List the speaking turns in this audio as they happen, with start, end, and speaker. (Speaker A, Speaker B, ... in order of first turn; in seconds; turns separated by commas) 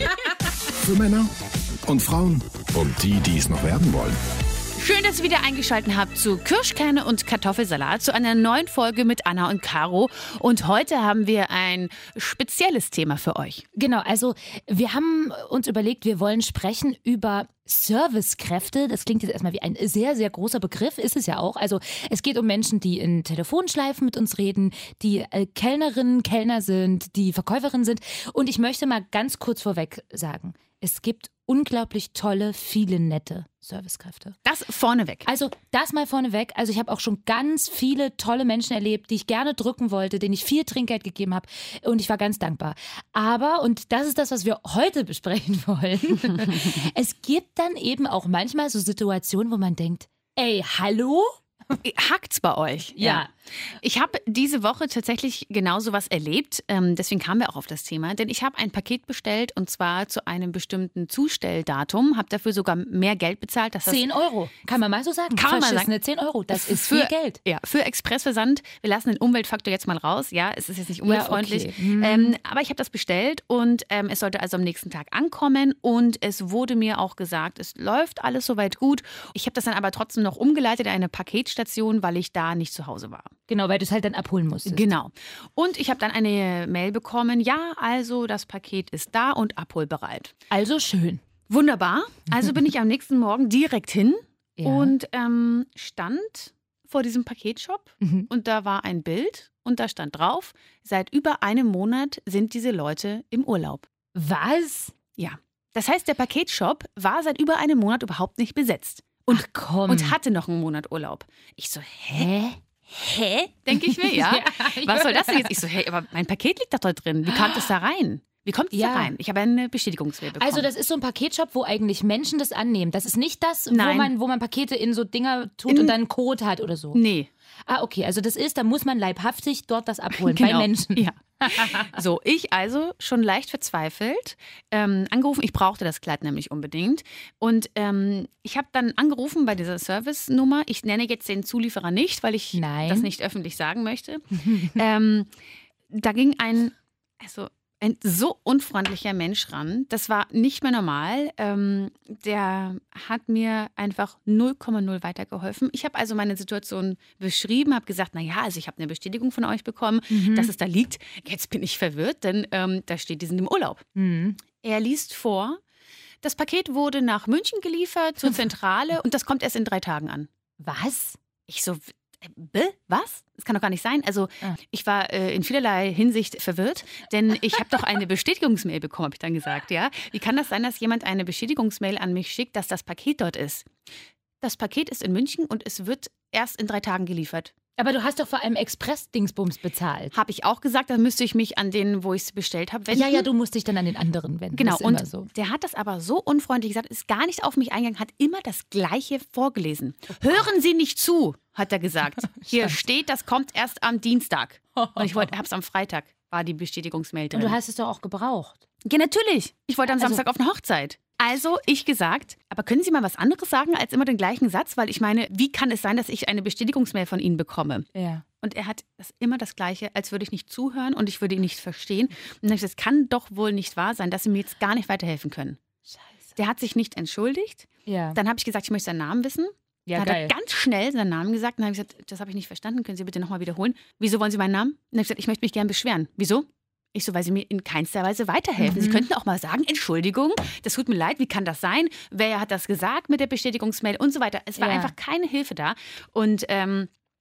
Speaker A: 0.8-1.3, Speaker A: 1.9-4.2, Speaker B: 4.8-13.7, Speaker C: 13.8-34.4, Speaker B: 34.5-35.3, Speaker C: 35.3-51.8, Speaker B: 46.4-46.8, Speaker B: 51.8-64.0, Speaker C: 53.0-53.3, Speaker C: 63.9-67.4, Speaker B: 65.3-65.9, Speaker B: 66.5-83.3, Speaker C: 71.1-72.4, Speaker C: 83.5-84.9, Speaker B: 84.7-90.3, Speaker C: 90.5-91.2, Speaker B: 91.5-103.9, Speaker C: 94.6-95.0, Speaker C: 98.0-98.3, Speaker C: 104.2-104.9, Speaker B: 105.2-112.3, Speaker C: 109.3-110.2, Speaker C: 112.1-112.6, Speaker B: 112.9-120.7, Speaker C: 113.8-115.5, Speaker C: 117.3-117.6, Speaker C: 118.7-119.1, Speaker C: 120.4-127.0, Speaker B: 123.7-124.1, Speaker B: 125.7-126.0, Speaker B: 126.9-127.3, Speaker C: 127.7-132.0, Speaker B: 130.2-145.3, Speaker C: 142.6-143.1, Speaker C: 144.4-144.8, Speaker B: 145.9-163.8, Speaker C: 160.1-160.5, Speaker C: 164.0-164.4, Speaker B: 164.6-165.6, Speaker B: 166.2-170.3, Speaker C: 170.6-171.2, Speaker B: 171.5-183.7, Speaker B: 184.4-187.5, Speaker C: 187.8-190.1, Speaker B: 190.1-193.3, Speaker C: 192.9-195.3, Speaker B: 194.5-207.6, Speaker C: 202.4-202.7, Speaker C: 204.8-205.3, Speaker C: 207.3-208.6, Speaker B: 208.8-217.9, Speaker C: 209.9-210.2, Speaker C: 217.9-218.2, Speaker B: 218.4-225.6, Speaker B: 226.4-246.9, Speaker C: 227.9-228.2, Speaker C: 229.9-230.3, Speaker C: 238.6-239.1, Speaker C: 244.6-244.9